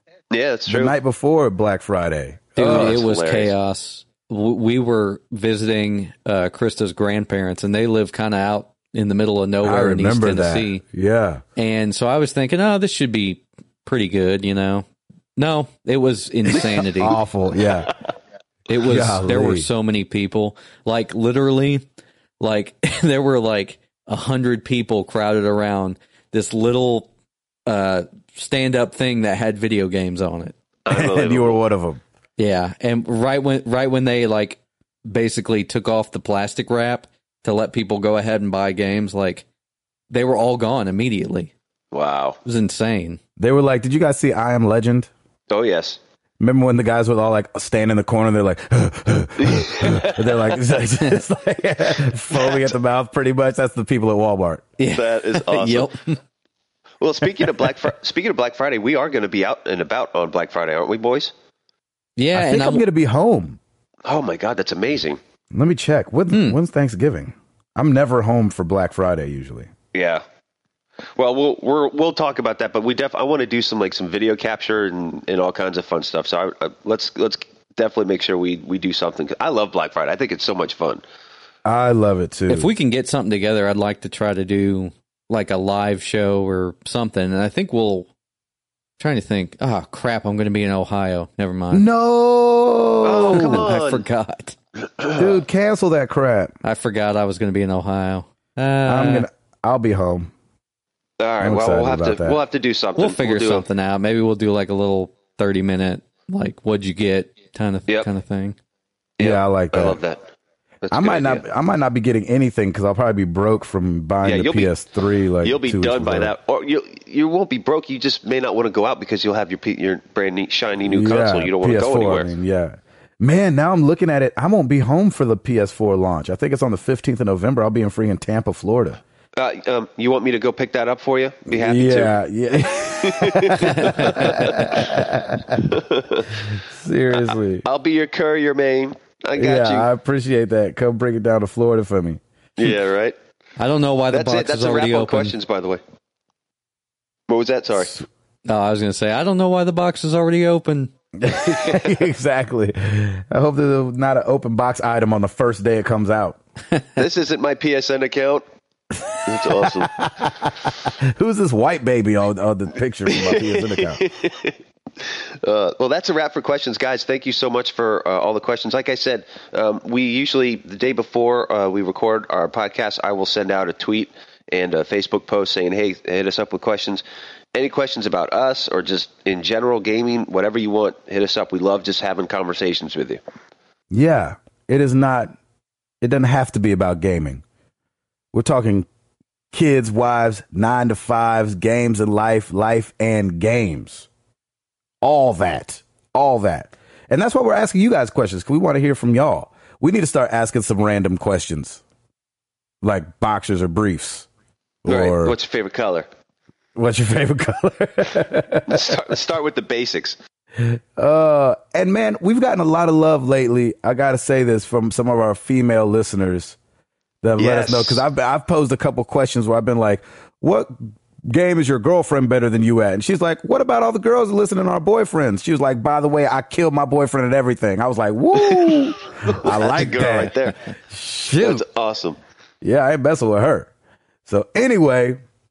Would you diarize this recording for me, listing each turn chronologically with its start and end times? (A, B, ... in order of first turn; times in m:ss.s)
0:00.3-0:01.0 A
0:00.7-0:03.0 B
0:02.6-0:10.8 C
0:02.6-0:03.5 A
0:09.6-0:11.4 B
0:11.6-0:17.2 C
0:16.5-0:17.9 B
0:18.7-0:21.8 C
0:18.8-0:19.7 B
0:22.4-0:27.1 C
0:27.7-0:30.6 C
0:30.8-0:31.6 A
0:30.9-0:32.0 B
0:32.4-0:39.4 C
0:40.1-0:41.5 C
0:41.9-0:42.4 A
0:42.4-0:43.2 C
0:43.4-0:45.1 B
0:45.5-0:46.0 A
0:46.4-0:54.7 B
0:49.4-0:50.3 A
0:52.4-0:52.6 A
0:54.8-0:56.2 C
0:54.9-0:55.9 A
0:57.0-1:01.3 A
1:02.2-1:02.8 C
1:02.3-1:03.6 B
1:04.0-1:05.2 A
1:05.5-1:09.7 B
1:06.3-1:06.6 C
1:09.9-1:10.2 A
1:11.2-1:21.0 A
1:21.6-1:22.7 B
1:22.5-1:28.1 C
1:29.0-1:31.9 C
1:31.7-1:33.7 B
1:33.0-1:34.0 A
1:33.1-1:34.6 C
1:35.0-1:35.3 A
1:35.2-1:36.6 B
1:36.6-1:39.3 C
1:38.9-1:40.3 B
1:41.2-1:43.7 A
1:41.4-1:42.4 B
1:43.0-1:48.6 C
1:49.2-1:50.2 A
1:49.2-1:50.0 B
1:50.8-1:51.4 A
1:50.9-1:56.3 B
1:54.2-1:54.8 A
1:55.4-2:02.3 A
2:00.9-2:09.0 B
2:09.4-2:16.4 A
2:11.5-2:15.8 B
2:13.6-2:14.2 C
2:16.5-2:17.6 B
2:17.1-2:19.9 A
2:19.4-2:22.2 B
2:22.6-2:23.2 A
2:23.6-2:25.3 C
2:24.1-2:25.8 A
2:27.3-2:28.0 A
2:28.4-2:30.9 C
2:31.2-2:36.4 B
2:31.5-2:31.8 A
2:37.0-2:38.4 A
2:39.1-2:44.0 B
2:39.3-2:40.1 A
2:43.1-2:57.0 A
2:57.5-3:03.2 A
3:03.9-3:05.4 B
3:06.0-3:07.4 B
3:08.3-3:08.9 B
3:09.5-3:14.1 B
3:15.0-3:21.8 B
3:22.8-3:24.3 B
3:24.8-3:25.4 B
3:24.9-3:26.1 A
3:26.8-3:29.0 B
3:28.7-3:30.2 A
3:30.6-3:36.6 B
3:37.2-3:51.6 B
3:37.4-3:38.0 A
3:48.4-3:50.6 A
3:51.4-3:52.2 A
3:52.6-3:53.7 B
3:54.3-3:55.2 B